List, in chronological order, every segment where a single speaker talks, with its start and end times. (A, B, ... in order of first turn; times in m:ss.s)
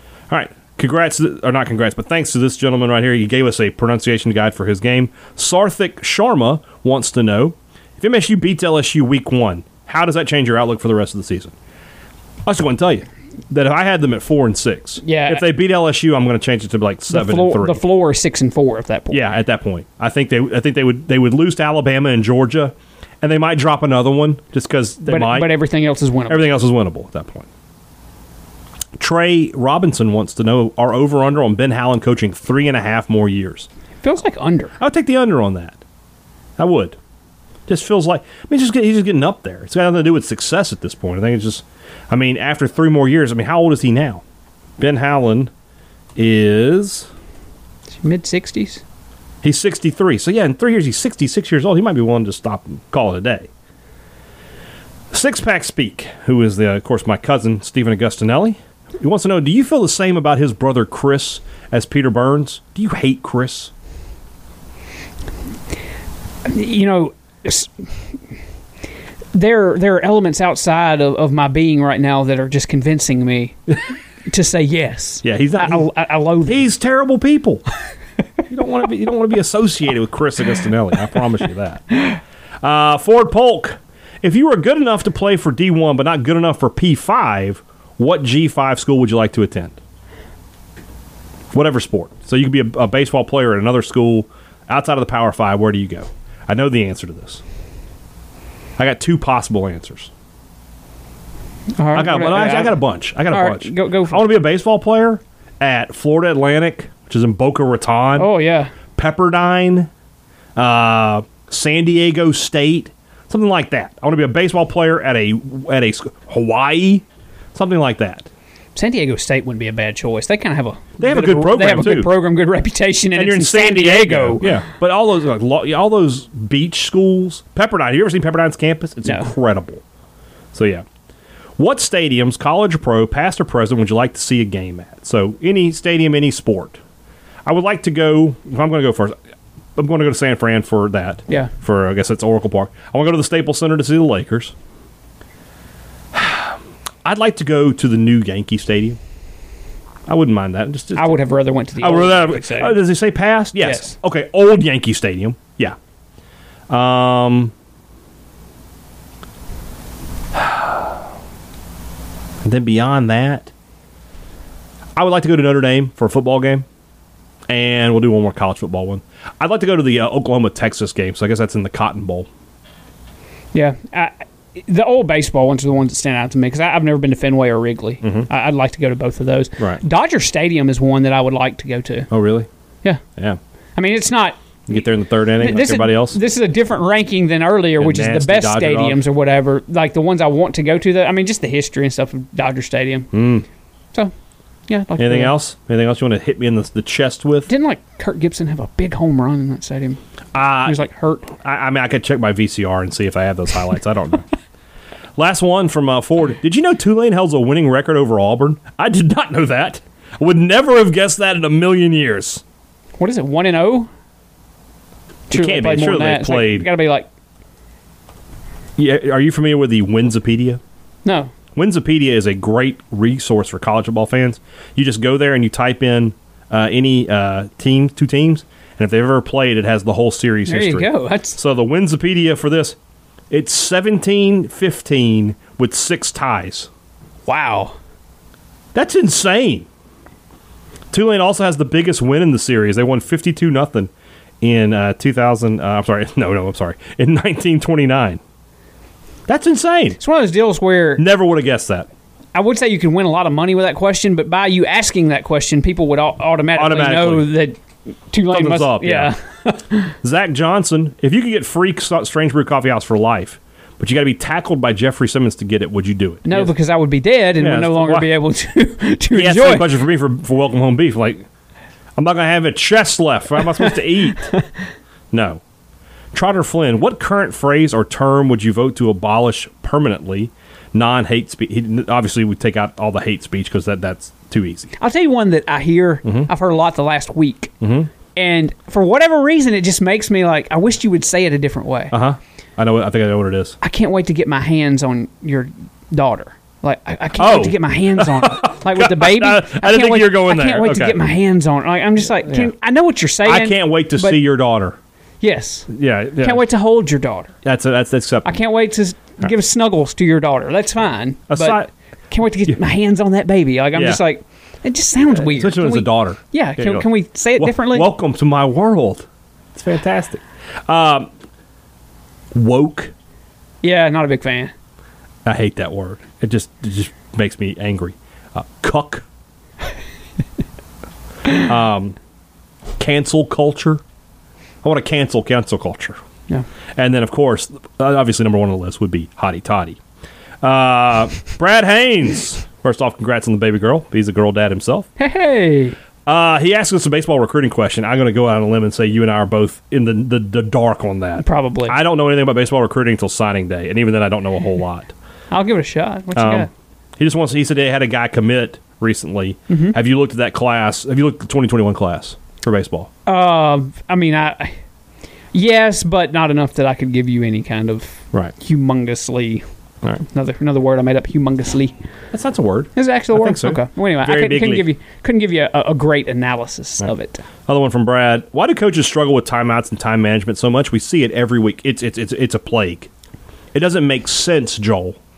0:00.3-0:11.5 A
0:12.4-0:17.8 A
0:15.0-0:15.5 B
0:17.1-0:19.2 B
0:19.1-0:25.5 A
0:25.1-0:26.4 B
0:26.3-0:27.5 A
0:29.0-0:33.7 A
0:34.0-0:34.7 B
0:34.8-0:35.8 A
0:36.6-0:37.0 A
0:37.7-0:44.2 A
0:44.8-0:45.5 A
0:46.2-0:47.1 A
0:48.0-0:48.8 B
0:49.4-0:53.5 A
0:55.1-1:03.7 A
1:06.4-1:07.9 B
1:09.3-1:16.7 B
1:15.2-1:15.9 A
1:16.4-1:17.6 A
1:18.5-1:22.0 A
1:22.6-1:29.8 A
1:31.5-1:37.4 A
1:38.8-1:40.1 A
1:41.8-1:42.8 B
1:41.9-1:48.3 A
1:43.3-1:44.2 B
1:48.2-1:48.7 B
1:49.0-1:49.9 A
1:50.6-1:58.3 A
1:58.8-2:04.5 B
2:01.0-2:02.1 A
2:03.1-2:09.8 A
2:09.0-2:09.3 B
2:10.5-2:10.8 A
2:11.6-2:16.8 A
2:17.4-2:19.2 A
2:19.8-2:24.5 A
2:26.1-2:29.0 A
2:30.1-2:31.2 A
2:31.0-2:32.8 B
2:31.8-2:35.8 A
2:33.6-2:33.9 B
2:36.7-2:37.5 A
2:40.3-2:40.9 A
2:42.4-2:43.5 A
2:45.0-2:46.6 A
2:47.5-2:52.3 A
2:53.5-3:02.1 B
2:58.0-2:58.3 A
3:02.1-3:02.5 A
3:03.8-3:04.4 B
3:04.7-3:06.2 A
3:05.4-3:13.1 B
3:07.8-3:09.0 A
3:13.1-3:13.4 A
3:14.7-3:15.3 B
3:15.0-3:17.5 A
3:17.5-3:20.0 B
3:20.3-3:24.2 A
3:20.6-3:21.3 B
3:25.2-3:32.4 A
3:33.0-3:33.9 B
3:35.3-3:37.1 B
3:35.3-3:36.7 A
3:38.8-3:40.6 A
3:41.0-3:41.3 B
3:41.5-3:52.8 A
3:50.5-3:51.4 B
3:53.3-3:56.7 A
3:57.3-3:57.7 B
3:58.7-3:59.7 A
4:00.9-4:03.9 A
4:04.4-4:08.2 A
4:09.3-4:10.0 A
4:10.0-4:11.0 B
4:11.0-4:11.9 A
4:12.3-4:17.6 B
4:16.6-4:17.3 A
4:18.1-4:19.9 B
4:18.3-4:19.1 A
4:20.0-4:26.5 A
4:26.2-4:29.8 B
4:27.4-4:28.1 A
4:29.1-4:31.2 A
4:32.0-4:34.3 A
4:33.6-4:34.4 B
4:35.1-4:35.4 A
4:36.1-4:44.7 A
4:44.8-4:47.5 B
4:47.6-4:47.9 A
4:48.1-4:51.9 B
4:51.9-4:53.6 A
4:53.6-5:04.2 B
4:57.2-5:01.0 A
5:02.2-5:02.5 A
5:03.2-5:04.8 A
5:05.2-5:07.3 B
5:05.7-5:06.4 A
5:07.4-5:08.4 A
5:08.2-5:17.9 B
5:11.3-5:11.7 A
5:13.7-5:14.0 A
5:15.1-5:16.8 A
5:17.4-5:21.1 A
5:22.3-5:22.9 A
5:23.6-5:24.5 B
5:25.2-5:29.0 A
5:31.3-5:32.0 A
5:32.8-5:33.8 A
5:34.6-5:36.0 A
5:36.8-5:39.8 A
5:40.4-5:44.9 A
5:45.0-5:45.8 B
5:46.0-5:54.9 A
5:51.2-5:51.8 B
5:55.3-5:56.5 B
5:56.1-6:02.9 A
5:59.5-5:59.8 B
6:03.0-6:04.6 B
6:05.3-6:09.4 B
6:10.0-6:11.7 B
6:12.1-6:14.7 A
6:12.8-6:17.2 B
6:17.5-6:22.9 A
6:23.5-6:25.0 A